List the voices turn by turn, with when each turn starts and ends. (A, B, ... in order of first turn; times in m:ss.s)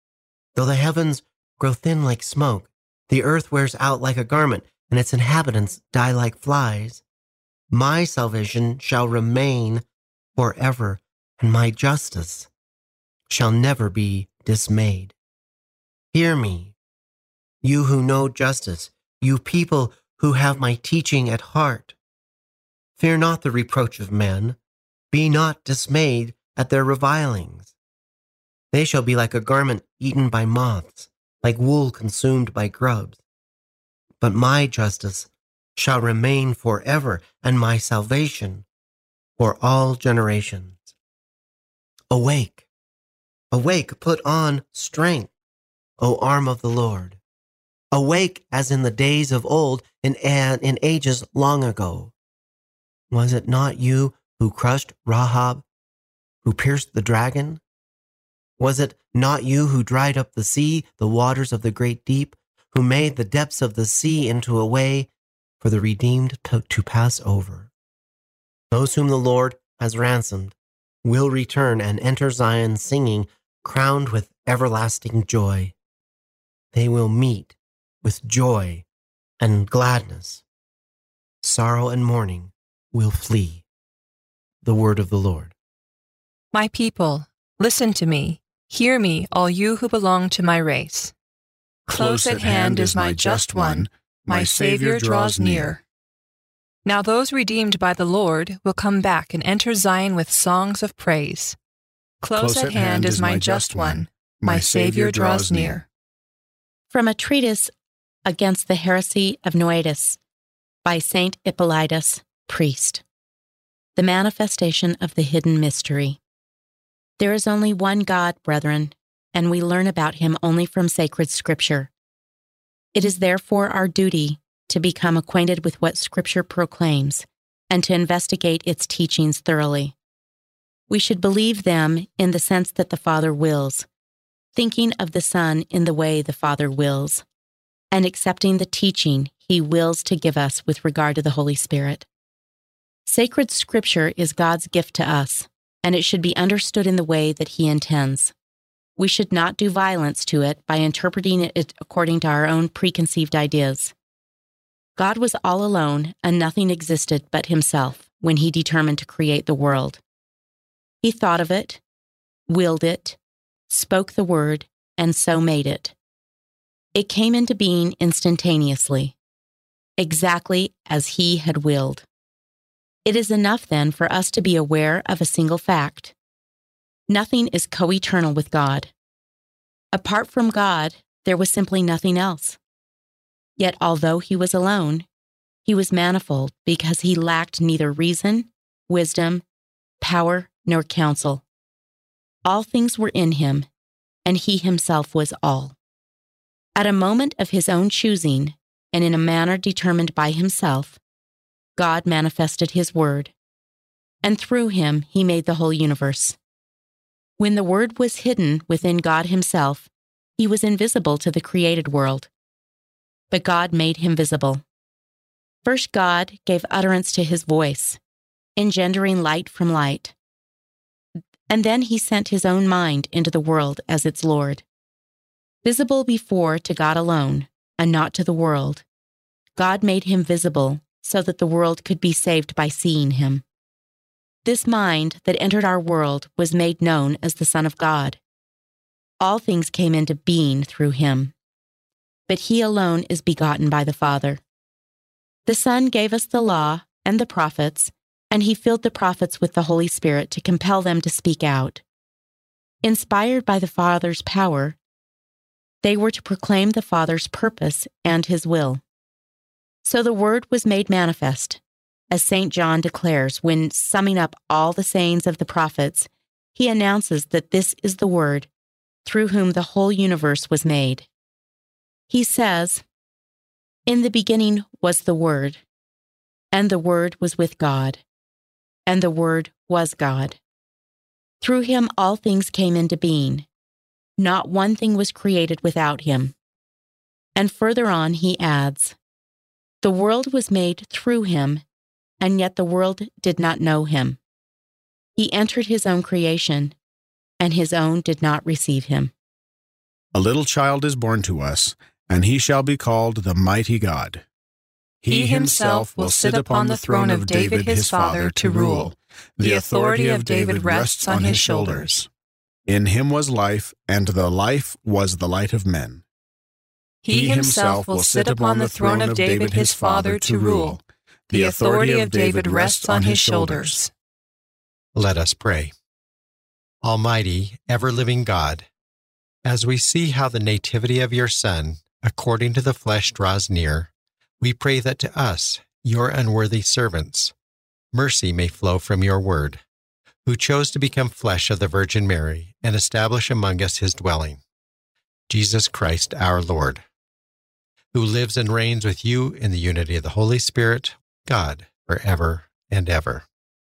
0:00.5-0:07.0 A
0:07.7-0:09.8 A
0:10.4-0:12.5 A
0:13.3-0:15.1 A
0:16.1-0:16.7 A
0:17.6-0:21.9 A
0:23.0-0:24.6 A
0:25.1-0:27.7 A
0:28.7-0:33.2 A
0:34.2-0:38.6 A
0:39.4-0:40.9 A
0:42.1-0:42.6 A
0:43.5-0:45.3 A
0:46.0-0:47.2 A
0:47.9-0:52.1 A
0:53.1-0:55.6 A
0:56.4-0:57.6 A
0:58.6-1:05.1 A
1:05.6-1:07.7 A
1:08.7-1:15.7 A
1:16.7-1:18.8 A
1:19.4-1:20.4 A
1:21.4-1:23.6 A
1:24.6-1:25.5 A
1:26.5-1:31.1 B
1:31.9-1:35.7 C
1:31.9-1:35.8 B
1:36.8-1:41.6 B
1:42.2-1:45.8 B
1:42.3-1:45.8 C
1:46.9-1:47.7 D
1:48.2-1:50.2 D
1:50.8-1:53.0 D
1:54.0-1:56.2 D
1:57.2-2:01.9 D
2:02.9-2:09.9 D
2:10.9-2:13.9 D
2:14.5-2:17.2 D
2:17.9-2:22.0 D
2:23.1-2:28.3 D
2:29.0-2:33.9 D
2:35.0-2:40.0 D
2:41.0-2:41.8 D
2:42.5-2:43.2 D
2:43.7-2:45.9 D
2:46.9-2:49.1 D
2:50.0-2:52.0 D
2:53.0-2:56.1 D
2:57.1-2:58.9 D
2:59.9-3:02.6 D
3:03.6-3:05.1 D
3:05.6-3:09.4 D
3:10.0-3:11.4 D
3:12.4-3:13.7 D
3:14.2-3:15.7 D
3:16.8-3:21.0 D
3:21.8-3:23.3 D
3:24.2-3:26.4 D
3:27.4-3:32.3 D
3:33.3-3:34.6 D
3:35.6-3:38.0 D
3:38.6-3:40.1 D
3:41.5-3:44.6 D
3:45.6-3:48.8 D
3:49.6-3:53.4 D
3:54.4-3:58.2 D
3:59.2-4:01.3 D
4:02.3-4:04.4 D
4:05.4-4:11.8 D
4:12.8-4:14.8 D
4:15.8-4:18.8 D
4:19.8-4:21.6 D
4:22.1-4:28.5 D
4:29.0-4:31.1 D
4:32.1-4:32.8 D
4:33.9-4:35.6 D
4:36.5-4:38.0 D
4:38.9-4:40.4 D
4:41.4-4:43.5 D
4:44.2-4:46.3 D
4:47.4-4:48.9 D
4:49.8-4:51.6 D
4:52.2-4:54.2 D
4:55.2-4:56.7 D
4:57.4-4:59.1 D
5:00.1-5:04.2 C
5:05.0-5:12.1 C
5:05.1-5:12.0 B
5:12.7-5:16.0 C
5:17.0-5:20.8 B
5:17.1-5:20.8 C
5:21.3-5:23.8 C
5:21.3-5:23.9 B
5:24.9-5:25.7 E
5:26.8-5:28.7 E
5:29.4-5:33.9 E
5:34.4-5:37.3 E
5:37.9-5:39.6 E
5:40.2-5:44.4 E
5:45.3-5:46.8 E
5:47.9-5:53.2 E